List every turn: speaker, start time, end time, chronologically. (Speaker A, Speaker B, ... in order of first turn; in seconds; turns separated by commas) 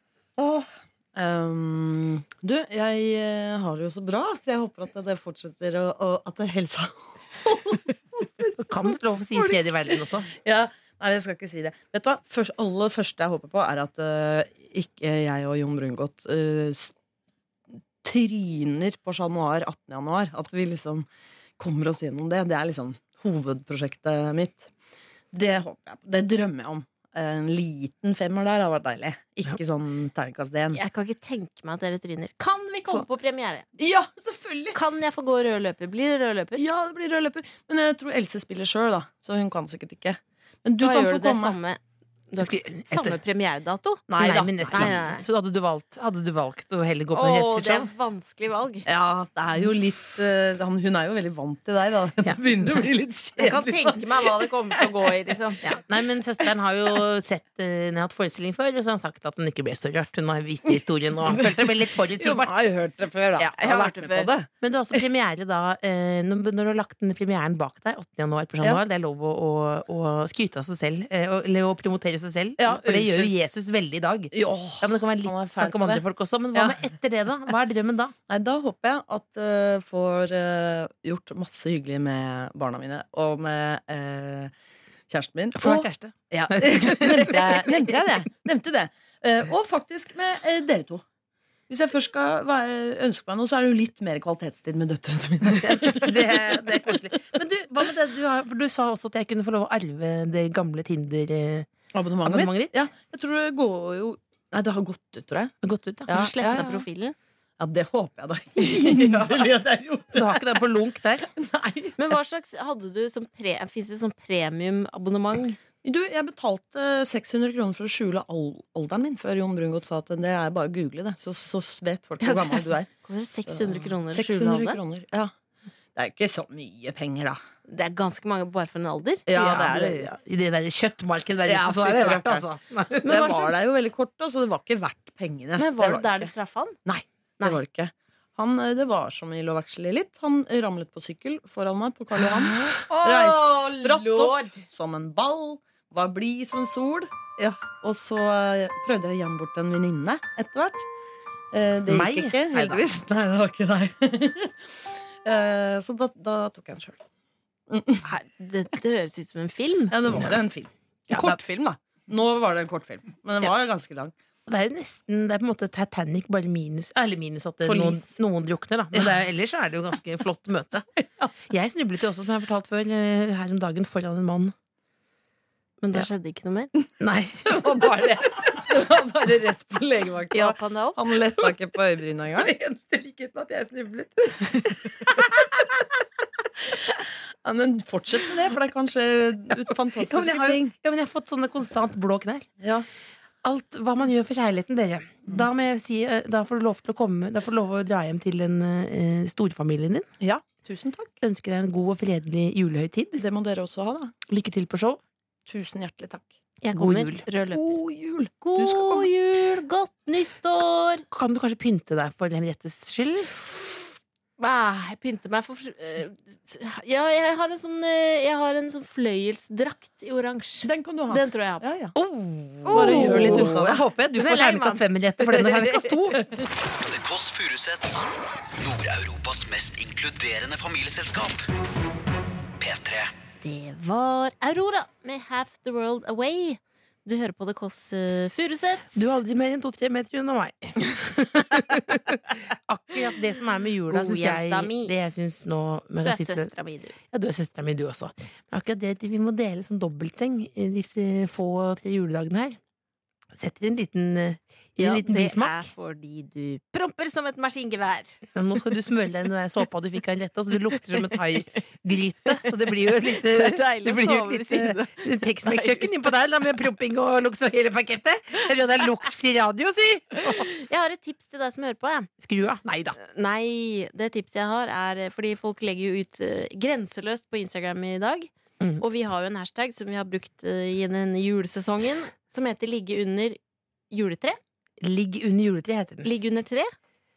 Speaker A: 0.4-16.9, Speaker B: 8.6-10.3, Speaker A: 18.0-21.1, Speaker A: 21.6-24.7, Speaker A: 25.3-30.8, Speaker C: 30.7-33.7, Speaker A: 33.8-34.8, Speaker C: 34.7-36.6, Speaker A: 36.6-41.6, Speaker C: 40.8-41.8, Speaker C: 42.3-44.1, Speaker B: 42.4-43.2, Speaker B: 44.1-47.9, Speaker A: 44.1-45.0, Speaker C: 44.7-45.2, Speaker C: 47.1-48.9, Speaker A: 48.9-55.1, Speaker C: 53.4-55.7, Speaker B: 55.6-62.5, Speaker A: 60.7-64.5, Speaker C: 63.4-64.3, Speaker B: 64.6-78.1, Speaker A: 72.6-73.3, Speaker A: 74.3-76.0, Speaker A: 76.5-76.9, Speaker A: 78.3-84.5, Speaker A: 85.1-91.0, Speaker B: 85.6-87.8, Speaker A: 91.7-97.0, Speaker B: 95.6-101.7, Speaker A: 101.9-105.5, Speaker B: 102.2-102.9, Speaker B: 105.6-106.2, Speaker A: 106.1-106.9, Speaker C: 106.1-107.2, Speaker A: 107.6-110.7, Speaker C: 108.8-109.0, Speaker B: 110.1-111.3, Speaker A: 111.3-112.0, Speaker C: 112.0-115.6, Speaker A: 115.8-122.9, Speaker C: 122.2-124.8, Speaker A: 123.5-125.3, Speaker A: 126.0-127.4, Speaker C: 127.7-129.2, Speaker A: 129.3-130.1, Speaker B: 129.3-133.4, Speaker A: 131.5-132.5, Speaker A: 133.0-136.3, Speaker C: 135.6-136.8, Speaker A: 136.9-150.8, Speaker C: 142.9-144.7, Speaker A: 151.5-157.0, Speaker B: 151.9-152.8, Speaker A: 157.7-158.1, Speaker C: 158.0-159.9, Speaker A: 159.9-164.1, Speaker B: 161.1-161.4, Speaker B: 164.5-170.8, Speaker A: 167.7-168.0, Speaker B: 171.4-174.5, Speaker C: 175.8-176.7, Speaker B: 177.0-178.5, Speaker A: 177.5-182.6, Speaker C: 180.3-181.0, Speaker B: 182.4-185.8, Speaker A: 183.6-185.3, Speaker A: 186.6-190.7, Speaker B: 189.9-192.5, Speaker A: 192.6-192.9, Speaker B: 193.4-200.1, Speaker A: 200.2-201.1, Speaker B: 201.2-203.2, Speaker A: 203.2-204.1, Speaker B: 204.3-205.0, Speaker A: 205.5-206.3, Speaker C: 206.6-207.7, Speaker B: 206.7-207.2, Speaker A: 207.5-209.1, Speaker C: 208.4-211.1, Speaker B: 211.1-213.3, Speaker C: 214.4-221.7, Speaker A: 220.6-221.9, Speaker B: 221.9-226.2, Speaker C: 222.7-223.5, Speaker A: 222.7-223.8, Speaker C: 224.2-225.9, Speaker D: 226.7-231.5, Speaker D: 232.6-233.1, Speaker C: 233.4-239.2, Speaker B: 238.9-246.5, Speaker C: 243.9-245.0, Speaker C: 246.0-247.0, Speaker B: 247.1-252.6, Speaker B: 253.3-255.7, Speaker C: 254.8-258.2, Speaker B: 258.3-270.5, Speaker C: 263.0-265.9, Speaker C: 270.2-272.1, Speaker B: 272.2-273.0, Speaker C: 273.0-283.4, Speaker C: 283.9-284.4, Speaker B: 284.8-286.1, Speaker C: 286.0-286.7